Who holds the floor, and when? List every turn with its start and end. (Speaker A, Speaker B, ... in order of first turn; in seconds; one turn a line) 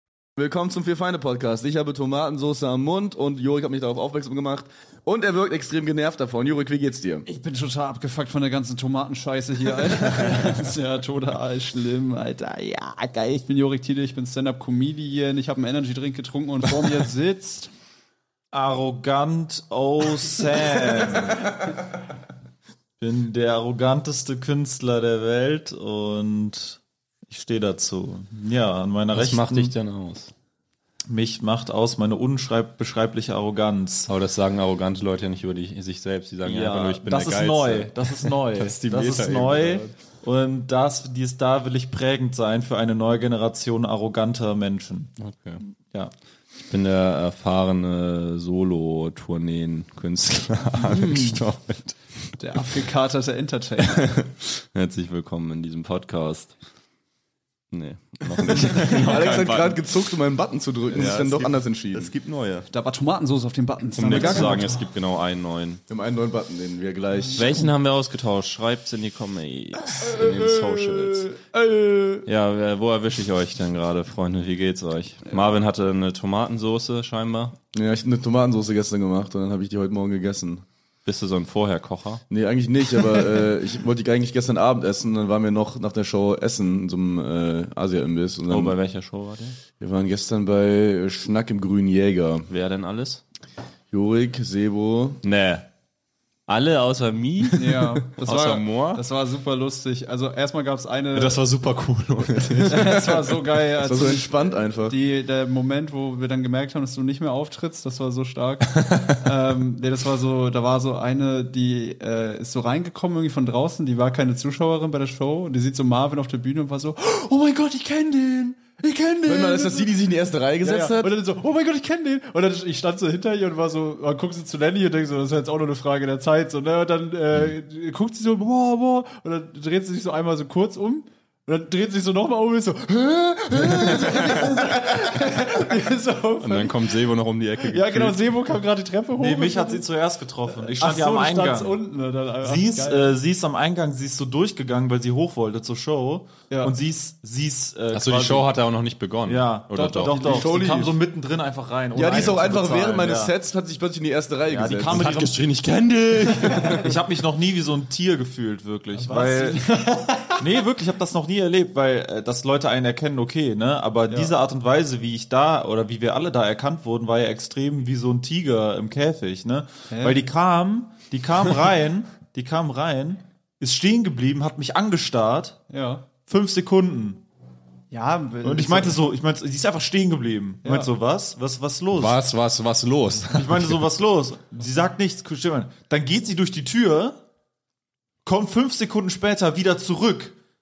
Speaker A: 0.3-7.3
Speaker B: 7.3-17.7
Speaker C: 18.5-21.6
Speaker C: 23.0-29.7
Speaker D: 29.1-30.3
Speaker C: 31.1-34.1
Speaker D: 34.1-39.9
Speaker C: 36.4-45.1
Speaker D: 45.2-45.6
Speaker C: 45.8-46.1
Speaker D: 46.6-52.0
Speaker B: 50.8-51.4
Speaker B: 52.4-54.2
Speaker D: 53.9-56.5
Speaker D: 57.7-59.8
Speaker A: 58.2-62.1
Speaker D: 60.9-62.7
Speaker B: 62.7-64.8
Speaker D: 64.0-65.8
Speaker A: 65.9-67.7
Speaker D: 67.3-71.3
Speaker B: 70.1-72.2
Speaker D: 72.2-77.5
Speaker A: 77.7-80.6
Speaker D: 81.0-82.2
Speaker A: 82.3-88.8
Speaker D: 88.5-89.6
Speaker A: 89.8-92.5
Speaker D: 92.5-93.2
Speaker A: 93.9-95.2
Speaker D: 95.2-95.7
Speaker D: 96.5-99.0
Speaker B: 97.5-101.4
Speaker D: 101.1-103.2
Speaker B: 102.7-119.9
Speaker A: 103.8-105.0
Speaker A: 119.2-121.2
Speaker B: 120.6-136.9
Speaker D: 133.7-134.6
Speaker D: 136.4-138.5
Speaker B: 137.6-139.8
Speaker C: 139.2-141.8
Speaker B: 140.6-143.2
Speaker C: 142.4-148.5
Speaker D: 147.9-150.3
Speaker C: 149.2-153.3
Speaker B: 149.9-150.3
Speaker A: 150.2-151.0
Speaker A: 151.9-155.1
Speaker C: 154.5-155.4
Speaker D: 154.8-156.9
Speaker C: 156.2-159.6
Speaker B: 158.9-160.4
Speaker C: 160.4-175.6
Speaker B: 164.1-164.3
Speaker B: 169.9-170.2
Speaker B: 175.7-176.0
Speaker C: 176.2-177.2
Speaker B: 177.9-179.0
Speaker C: 178.4-182.2
Speaker B: 180.6-180.9
Speaker D: 181.9-183.8
Speaker C: 183.3-187.2
Speaker C: 188.2-190.3